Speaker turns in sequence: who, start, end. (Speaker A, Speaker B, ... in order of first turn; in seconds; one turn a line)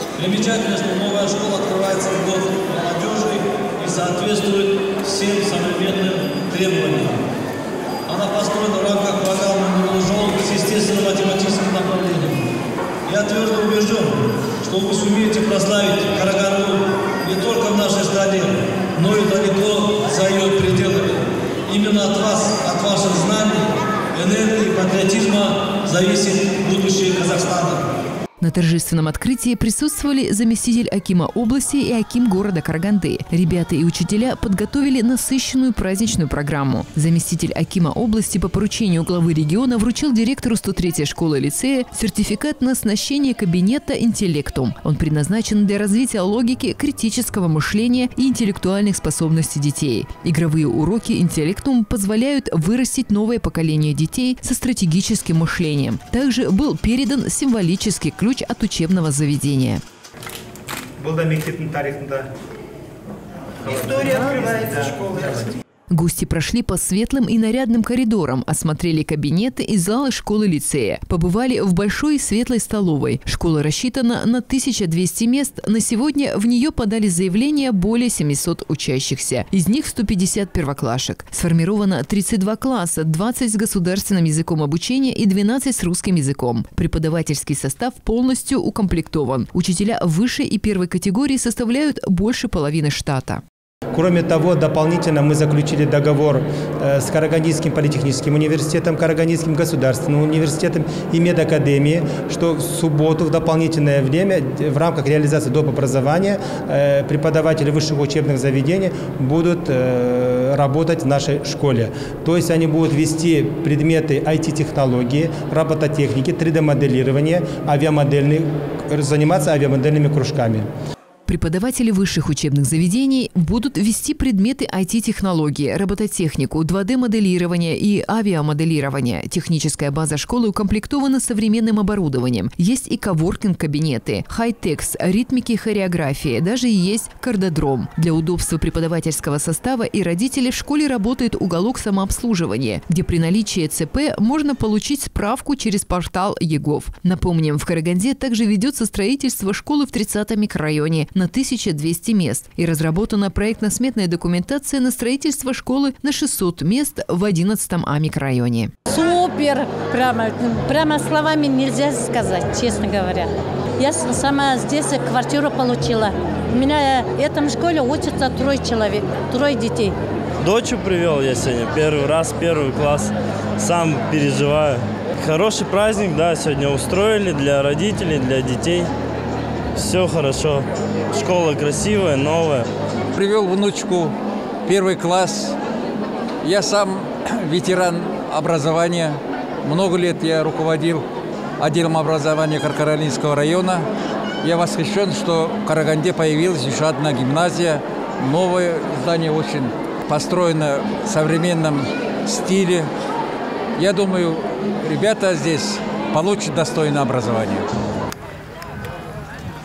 Speaker A: 0.2-7.2
Speaker A: 8.1-12.5
Speaker A: 13.1-27.9
Speaker B: 28.4-59.8
Speaker C: 61.0-62.3
Speaker C: 63.6-65.5
Speaker B: 65.9-93.4
Speaker C: 93.9-120.7
Speaker B: 121.3-158.7
Speaker D: 158.9-169.9
Speaker E: 170.4-178.9
Speaker E: 179.8-182.7
Speaker F: 183.1-184.2
Speaker F: 184.7-185.6
Speaker F: 186.4-191.1
Speaker F: 191.6-193.9
Speaker F: 194.4-202.9
Speaker F: 203.8-207.7